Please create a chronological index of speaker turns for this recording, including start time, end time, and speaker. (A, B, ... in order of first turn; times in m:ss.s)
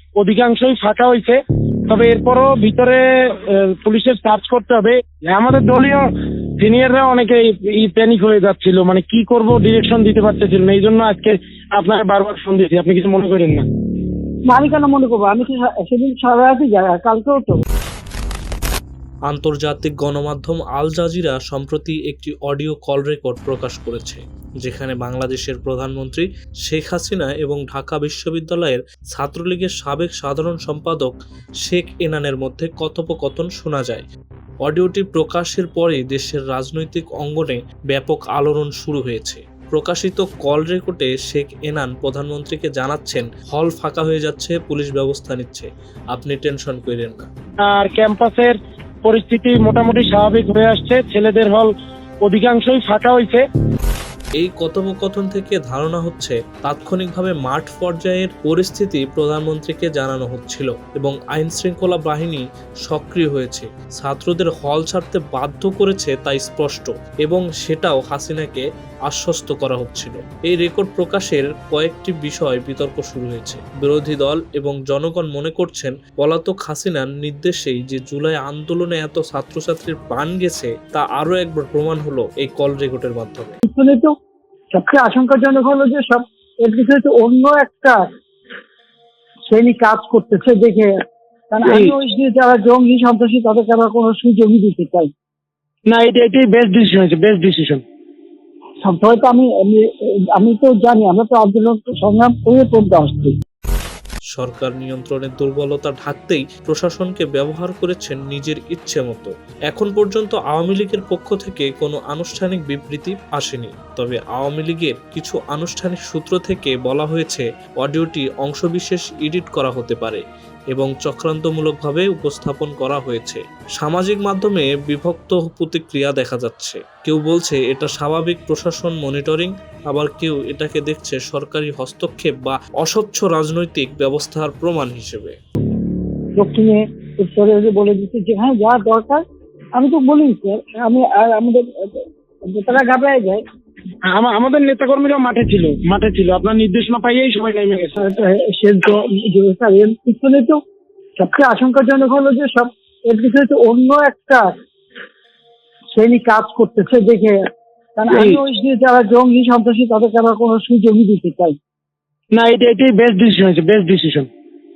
0:00.2-0:06.1 A
0:06.6-0:13.7 A
0:14.5-0:17.6 B
0:19.3-0:34.1 C
0:34.6-0:47.3 C
0:47.7-0:51.7 A
0:52.2-0:53.4 A
0:54.4-1:23.6 C
1:23.6-1:24.1 B
1:24.7-1:28.1 B
1:29.5-1:30.9 B
1:31.5-1:35.1 B
1:31.6-1:31.9 A
1:35.9-1:37.8 A
1:38.8-1:43.4 B
1:44.3-2:15.4 C
2:16.4-2:19.2 B
2:19.8-2:23.4 B
2:24.1-2:28.0 A
2:28.0-2:30.6 B
2:31.2-2:34.5 B
2:35.9-2:37.4 B
2:38.0-2:41.6 B
2:38.1-2:38.4 A
2:42.3-2:44.3 A